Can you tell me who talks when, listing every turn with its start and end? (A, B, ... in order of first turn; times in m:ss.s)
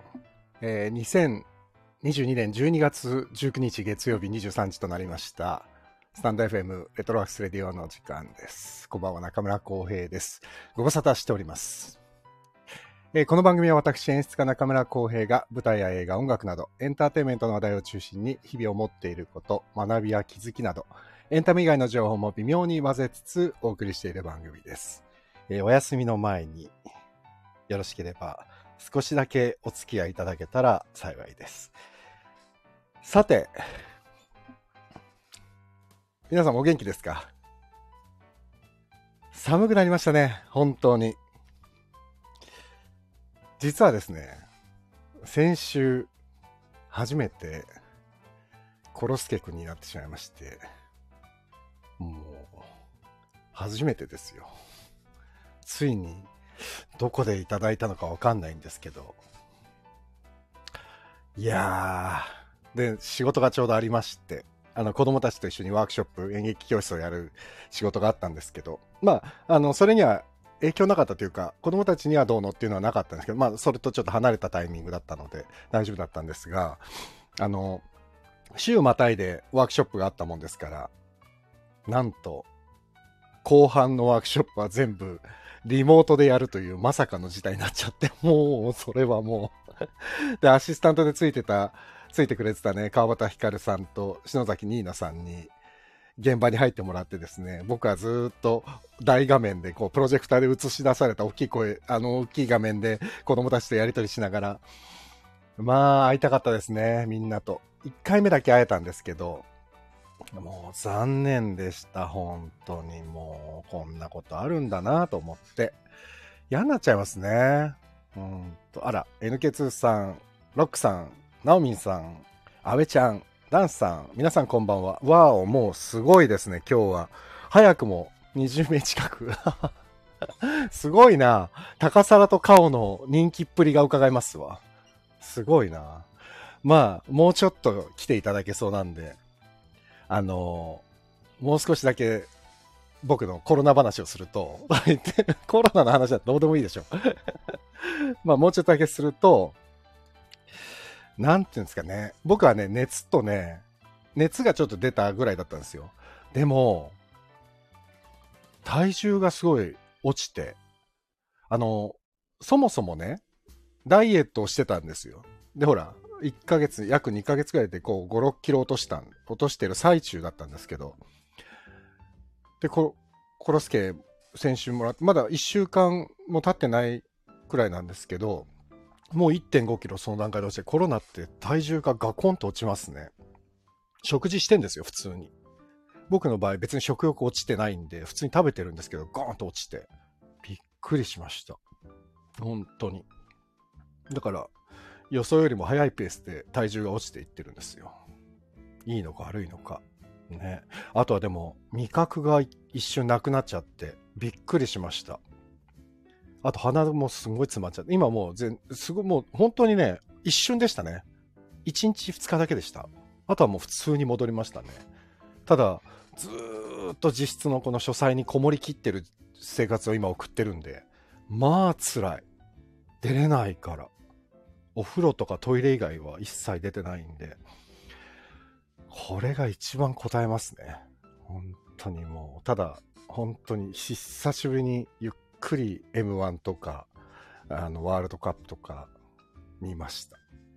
0:00.6-0:01.5 A
0:02.0-0:12.0 A
0:13.1-0:26.7 A
0:27.7-0:31.7 A
0:33.0-0:33.6 A
0:36.3-0:37.3 A
0:39.3-0:41.2 A
0:43.6-0:44.4 A
0:45.2-0:46.1 A
0:46.9-0:47.7 A
0:48.9-0:50.6 A
0:52.0-0:52.6 A
0:53.5-0:54.5 A
0:55.6-0:56.3 A
0:57.0-0:59.2 A
1:01.4-1:16.8 A
1:17.4-1:17.8 A
1:18.6-1:20.9 A
1:21.9-1:22.5 A
1:23.4-1:35.5 A
1:36.2-1:44.6 A
1:45.6-1:49.5 A
1:50.3-1:55.8 A
1:56.5-2:09.7 A
2:10.4-2:14.6 A
2:15.2-2:16.1 A
2:16.6-2:19.2 A
2:20.1-2:20.8 A
2:21.4-2:22.3 A
2:23.0-2:27.2 A
2:27.8-2:29.6 A
2:31.2-2:33.6 A
2:34.2-2:37.0 A
2:38.6-2:40.6 A
2:41.5-2:43.2 A
2:43.8-2:51.0 A
2:52.6-2:58.5 A
2:59.1-3:03.1 A
3:04.0-3:05.3 A
3:06.1-3:09.9 A
3:10.4-3:11.6 A
3:12.4-3:13.1 A
3:14.1-3:14.5 A
3:15.1-3:18.0 A
3:18.9-3:25.2 A
3:26.4-3:31.0 A
3:31.6-3:34.9 A
3:35.5-3:42.2 A
3:43.0-3:43.9 A
3:44.8-3:47.4 A
3:48.9-3:56.9 A
3:57.5-3:58.9 A
3:59.6-4:00.2 A